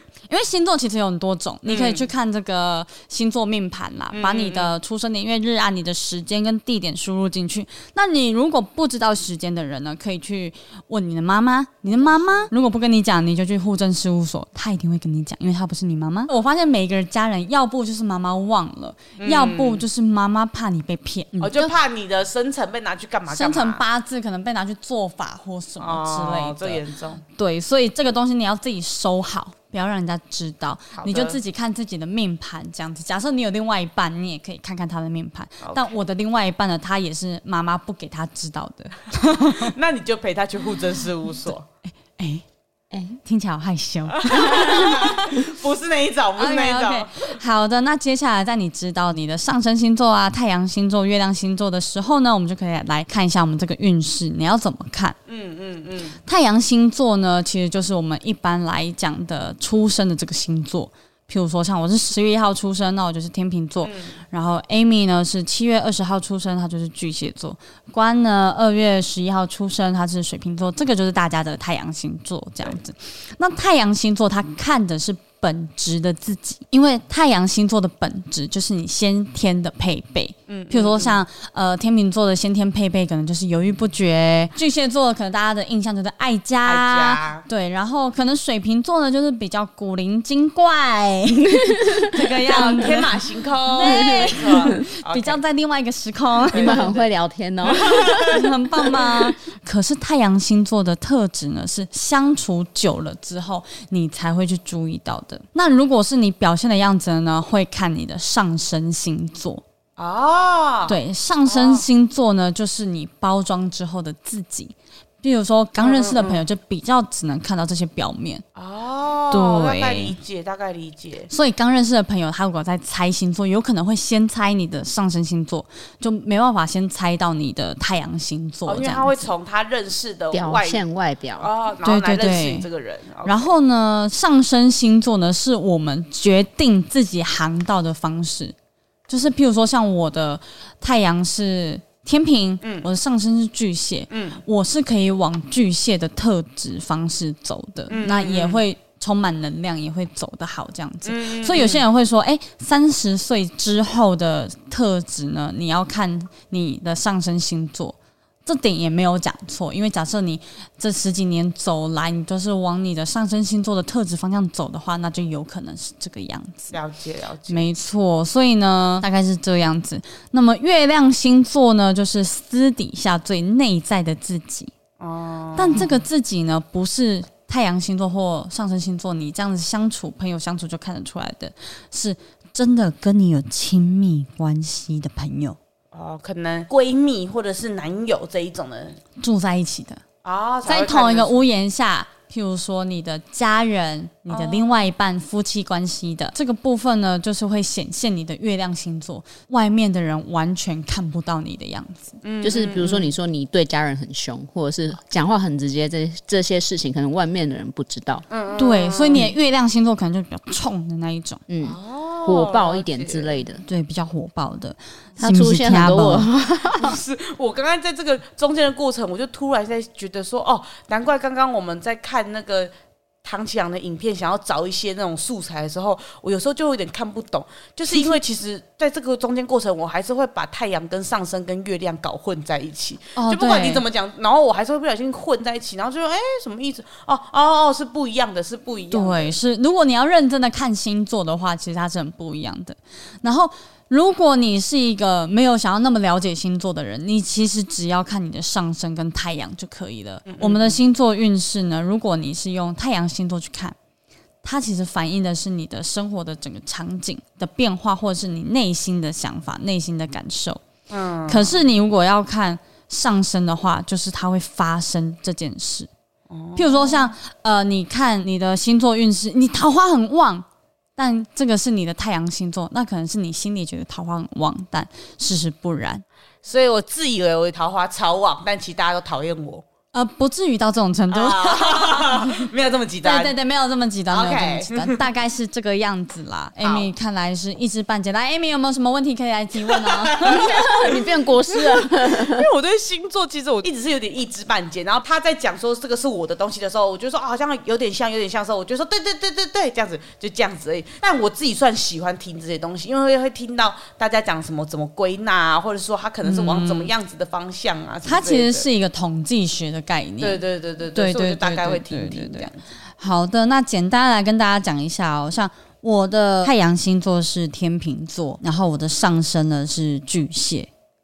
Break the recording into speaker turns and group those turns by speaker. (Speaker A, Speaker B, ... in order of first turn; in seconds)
Speaker A: 0.3-21.7, 23.3-26.8, 27.3-39.7, 42.0-42.4, 43.2-45.5, 46.4-55.1, 56.2-96.9, 98.3-109.6, 110.9-118.4, 119.3-120.2, 121.3-129.3, 131.8-132.7, 133.2-138.5, 139.1-166.7, 167.5-174.7, 175.6-185.6, 189.2-190.0, 190.7-202.2, 208.6-211.4, 213.7-216.3, 227.9-228.2, 233.2-233.8, 238.9-253.8, 254.4-260.6, 261.3-265.9, 266.6-270.4, 271.0-276.0, 279.9-282.4, 283.0-290.6, 306.2-306.9, 308.0-310.4, 310.9-320.7
Speaker B: 1.6-2.1, 4.1-4.7, 12.0-12.5, 19.2-19.8, 21.4-23.8, 25.8-27.2, 31.0-31.4, 35.6-35.9, 39.4-41.6, 44.1-47.3, 55.3-56.2, 63.8-64.1, 80.5-81.2, 86.6-87.4, 92.5-95.4, 96.5-97.1, 97.6-98.3, 110.0-111.8, 115.8-116.4, 118.5-121.3, 128.7-130.8, 131.4-133.5, 142.6-142.9, 144.1-144.4, 147.9-148.6, 151.0-151.8, 166.7-167.7, 175.0-175.9, 185.9-189.0, 190.2-191.4, 194.3-194.8, 202.2-203.1, 208.3-209.3, 211.6-213.4, 216.8-222.7, 223.2-239.3, 250.3-250.8, 260.9-261.6, 266.3-267.1, 276.4-279.6, 281.1-283.3, 284.1-285.0, 286.6-286.9, 289.7-308.7, 310.2-312.6
Speaker C: 42.9-43.2, 91.4-92.9, 93.8-94.8, 96.5-98.5, 130.3-131.5, 202.4-208.2, 211.5-213.6, 215.2-217.0, 290.2-292.5